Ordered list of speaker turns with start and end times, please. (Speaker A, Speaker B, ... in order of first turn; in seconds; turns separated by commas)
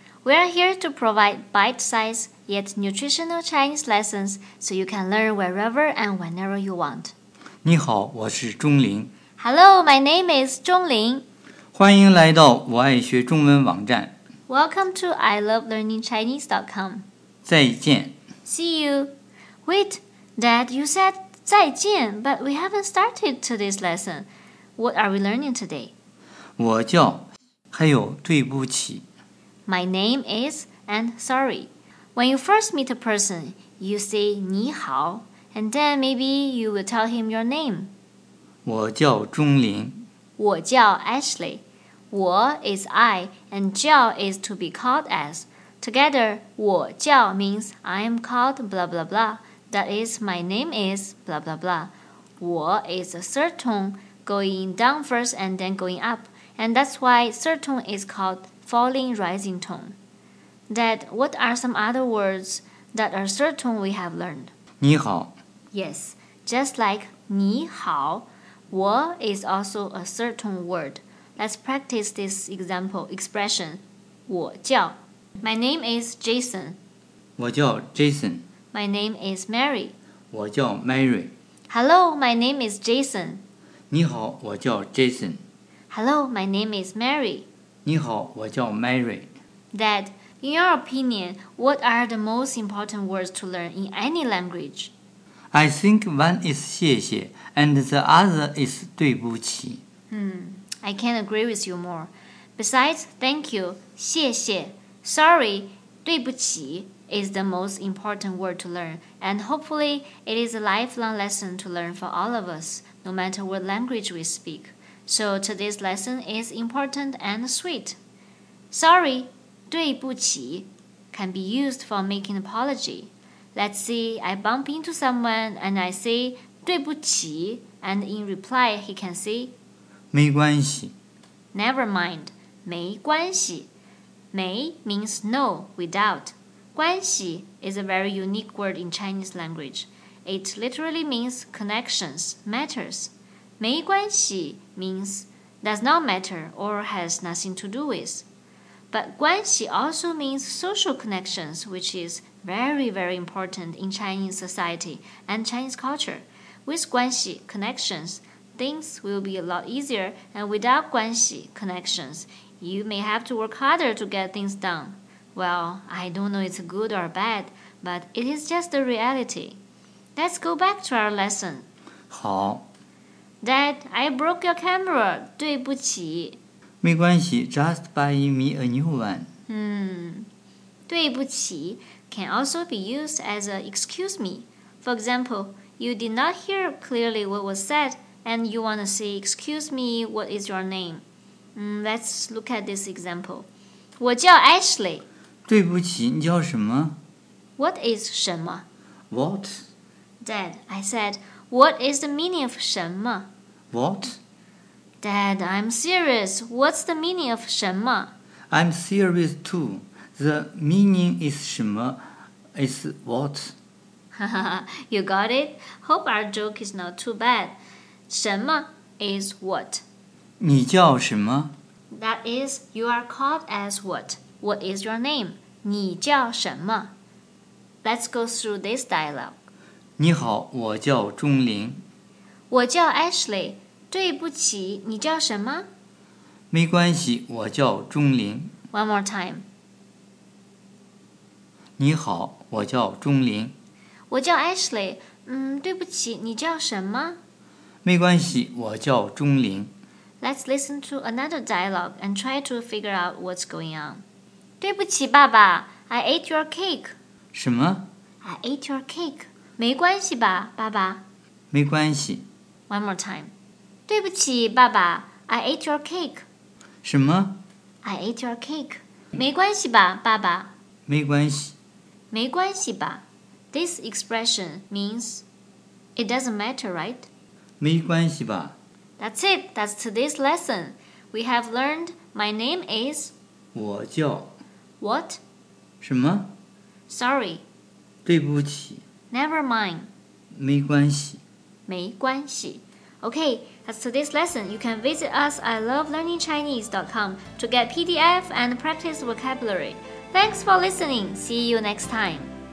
Speaker A: 0.2-7.1, Speaker B: 7.6-9.1, Speaker A: 9.4-11.2, Speaker B: 11.7-14.1, Speaker A: 14.5-17.1, Speaker B: 17.5-18.2, Speaker A: 18.4-19.1, Speaker A: 19.7-25.9, Speaker B: 26.6-29.1, Speaker A: 29.7-37.9, Speaker B: 38.6-40.1, Speaker A: 40.4-60.0, Speaker A: 60.7-64.5, Speaker B: 64.8-65.3, Speaker A: 65.7-76.8, Speaker B: 77.4-78.5, Speaker A: 78.7-80.0, Speaker B: 80.3-81.3, Speaker A: 81.7-83.4, Speaker B: 83.9-85.4, Speaker A: 85.9-87.5, Speaker B: 87.8-89.3, Speaker A: 89.7-94.9, Speaker B: 95.5-99.8, Speaker A: 100.1-118.0, Speaker A: 118.7-129.5, Speaker B: 130.1-130.9, Speaker A: 131.5-133.7, Speaker A: 134.3-148.3, Speaker A: 148.9-169.6, Speaker A: 170.2-171.7, Speaker B: 172.1-172.7, Speaker A: 173.4-176.4, Speaker B: 176.8-179.3, Speaker A: 179.5-180.3, Speaker A: 180.9-191.0, Speaker A: 191.6-193.5, Speaker A: 194.0-195.1, Speaker B: 195.5-197.0, Speaker A: 197.6-198.7, Speaker B: 199.1-199.7, Speaker A: 200.2-203.3, Speaker B: 203.7-204.2, Speaker A: 205.0-208.1, Speaker B: 208.5-212.0, Speaker B: 212.6-213.6, Speaker A: 214.1-217.6, Speaker A: 218.1-219.8, Speaker B: 220.4-221.5, Speaker A: 221.9-226.9, Speaker A: 227.8-229.4, Speaker B: 230.0-231.8, Speaker A: 232.5-235.7, Speaker B: 236.5-238.5, Speaker A: 238.7-239.5, Speaker B: 241.8-243.6, Speaker A: 244.1-247.2, Speaker B: 247.8-249.7, Speaker A: 250.2-254.0, Speaker A: 254.6-256.9, Speaker B: 257.3-257.9, Speaker A: 258.2-261.0, Speaker B: 261.5-262.2, Speaker A: 262.7-263.3, Speaker A: 263.9-266.2, Speaker B: 266.8-267.4, Speaker A: 267.8-270.5, Speaker B: 270.9-271.6, Speaker A: 272.1-275.2, Speaker A: 276.0-277.1, Speaker B: 277.6-278.6, Speaker A: 279.0-283.1, Speaker B: 283.6-284.3, Speaker A: 284.8-285.2, Speaker B: 285.8-286.3, Speaker A: 286.9-287.4, Speaker B: 288.1-288.8, Speaker A: 289.1-289.9, Speaker B: 290.3-291.2, Speaker A: 291.7-302.3